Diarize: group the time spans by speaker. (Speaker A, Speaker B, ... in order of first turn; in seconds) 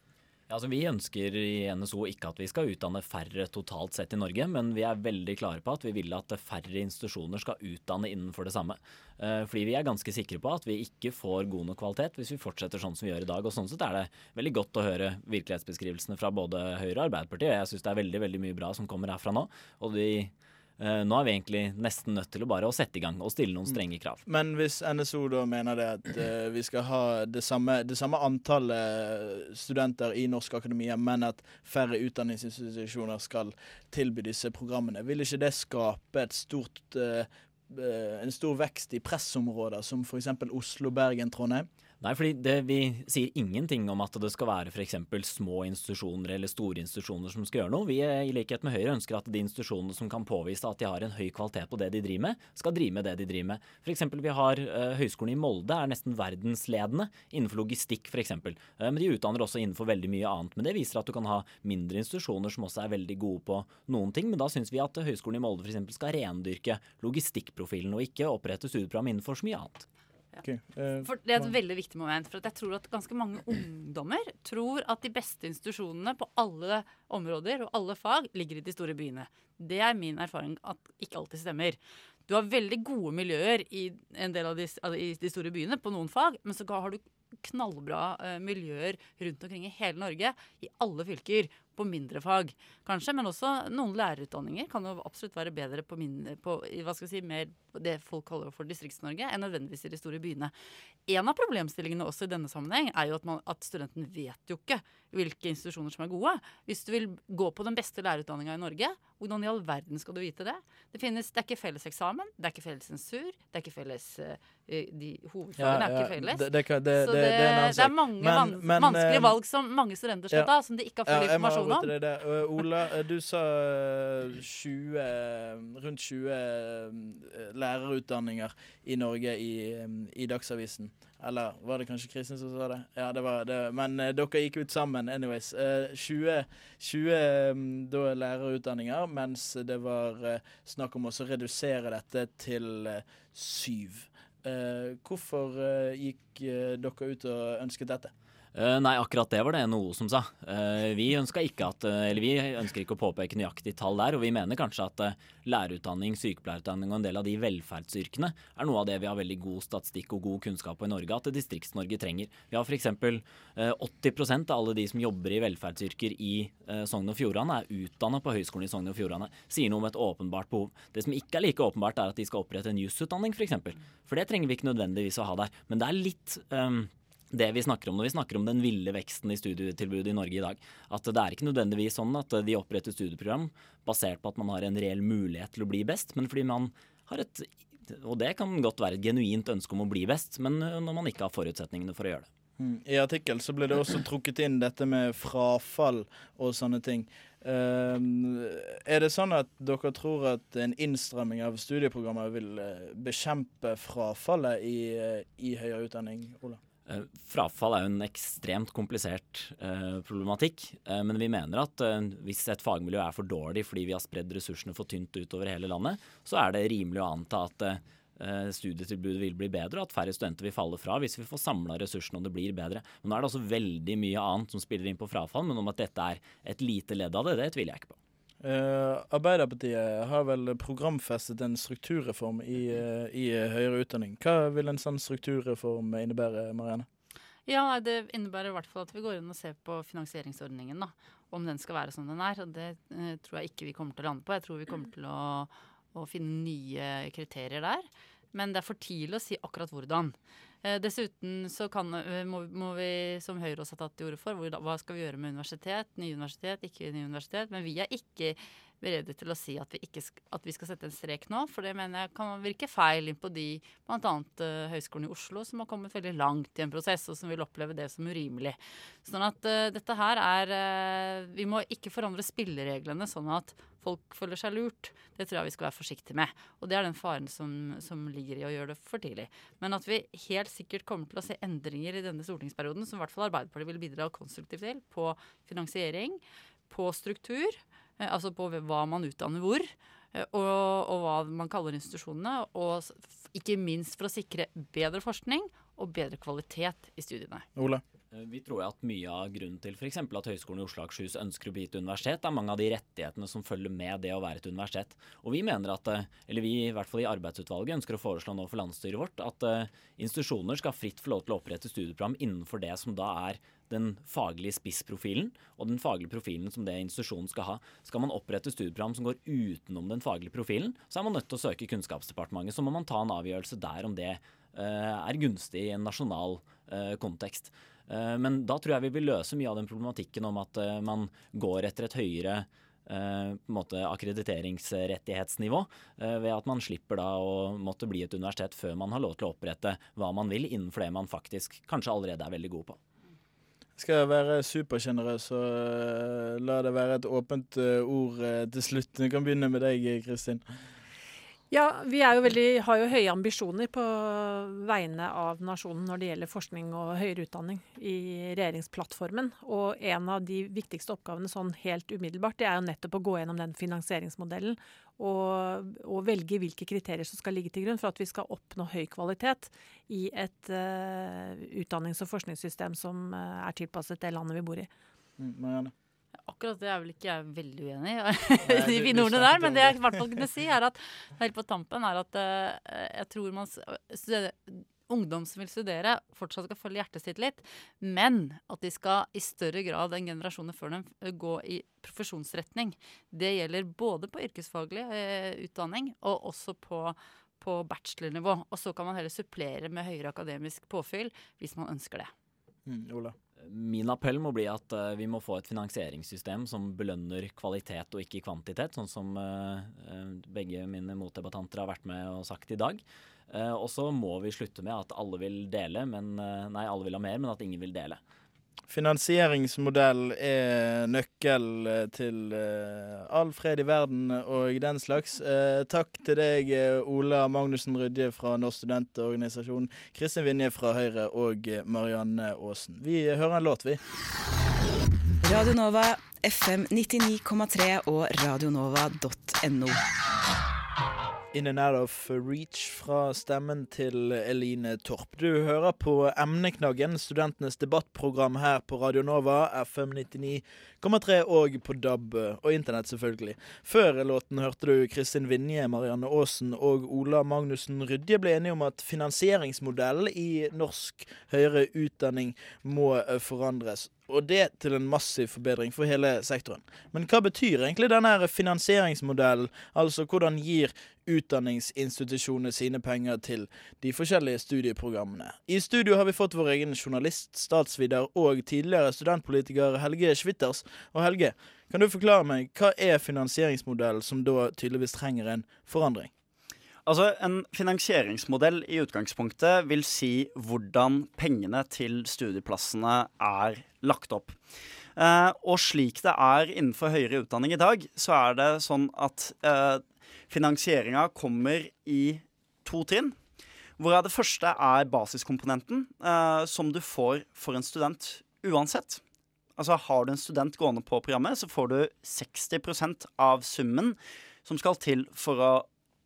Speaker A: 0.5-24.2, 42.0-69.8, 148.5-192.3, 206.9-227.9, 298.1-342.8, 403.4-418.0
Speaker B: 23.7-41.7, 70.4-71.5, 115.6-119.3, 121.0-148.1, 192.6-206.6, 228.4-236.9, 297.6-297.8, 343.8-350.4, 375.2-375.7, 378.4-380.0, 402.6-403.1, 418.7-433.8, 441.3-486.1
Speaker C: 71.0-100.5, 101.0-121.9, 237.5-297.4, 376.2-402.1
Speaker D: 351.5-374.7
Speaker E: 435.2-439.8
Speaker F: 486.8-494.4, 494.9-503.1, 503.8-509.0, 509.6-515.6